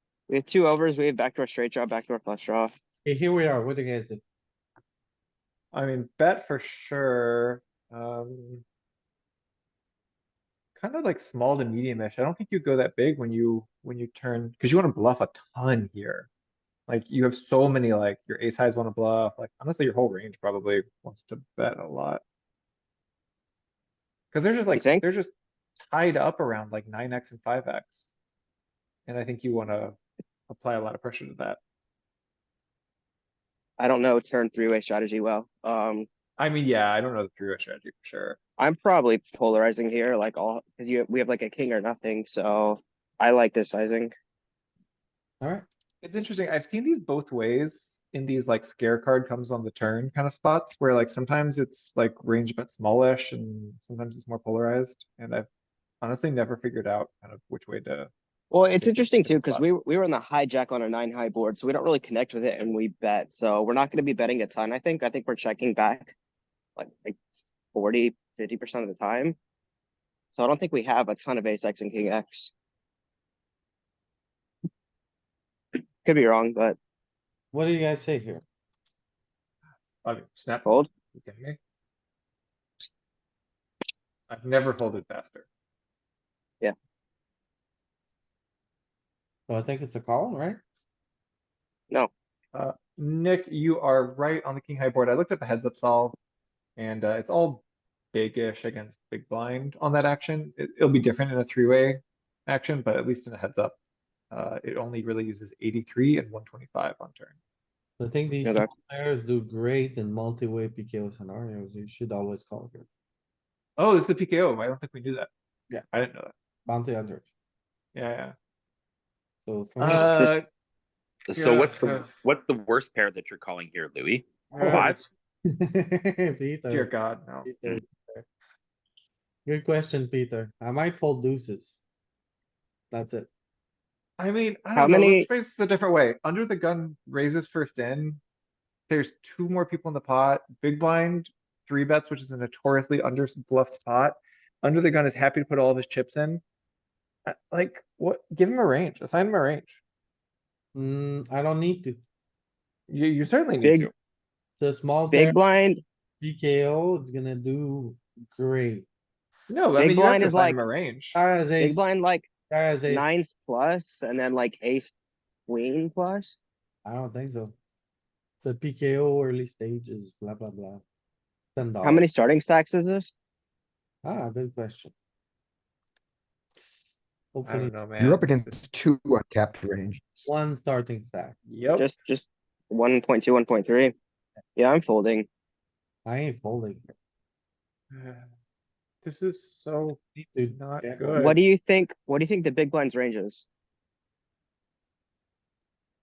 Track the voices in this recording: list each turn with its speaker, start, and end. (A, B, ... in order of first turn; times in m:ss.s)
0:00.3-0:02.7 A
0:03.0-0:04.2 B
0:05.7-0:08.6 C
0:10.8-0:16.3 C
0:16.9-0:22.2 C
0:24.3-0:28.1 C
0:24.7-0:25.0 A
0:29.1-0:30.0 C
0:30.5-0:31.6 C
0:33.8-0:36.1 A
0:36.4-0:38.4 C
0:38.6-0:44.1 A
0:45.4-0:45.6 B
0:46.0-0:55.5 C
0:56.0-0:58.1 C
0:58.5-1:06.1 A
0:58.7-0:59.7 C
1:06.8-1:07.2 A
1:07.7-1:09.4 A
1:10.3-1:12.5 A
1:16.0-1:16.8 A
1:17.5-1:18.4 B
1:20.0-1:21.6 C
1:20.6-1:20.9 A
1:24.3-1:25.4 C
1:29.5-1:30.6 B
1:32.5-1:36.2 C
1:36.8-1:43.8 C
1:44.3-1:47.3 C
1:48.0-1:52.8 B
1:53.8-1:55.3 C
1:55.9-1:56.3 C
1:56.6-1:57.3 B
1:57.9-1:58.3 C
1:59.4-2:00.2 B
1:59.8-2:00.4 C
1:59.9-2:00.3 A
2:01.3-2:05.0 D
2:01.3-2:02.0 C
2:04.5-2:06.9 B
2:04.6-2:04.9 C
2:06.7-2:07.5 C
2:07.4-2:08.2 B
2:09.4-2:11.8 B
2:12.9-2:13.3 B
2:14.2-2:18.2 C
2:14.7-2:15.3 A
2:18.9-2:26.4 C
2:27.2-2:29.8 C
2:30.7-2:32.0 B
2:32.9-2:33.9 C
2:33.6-2:33.9 A
2:34.6-2:35.4 B
2:35.1-2:35.8 A
2:36.2-2:38.8 B
2:39.5-2:41.2 C
2:39.7-2:40.6 A
2:41.1-2:41.8 B
2:41.6-2:42.3 A
2:42.5-2:43.0 B
2:42.9-2:44.9 A
2:45.5-2:46.4 A
2:46.8-2:47.5 B
2:48.4-2:50.8 B
2:51.6-2:52.0 B
2:51.8-2:53.1 A
2:54.0-2:54.9 B
2:56.6-2:57.7 B
2:57.4-2:58.6 C
2:58.0-3:00.2 E
3:00.2-3:01.3 B
3:01.4-3:01.9 C
3:01.8-3:03.9 A
3:04.6-3:05.3 A
3:06.0-3:06.9 B
3:07.9-3:08.2 C
3:09.0-3:10.0 C
3:10.2-3:11.2 B
3:10.5-3:11.4 C
3:11.2-3:13.4 A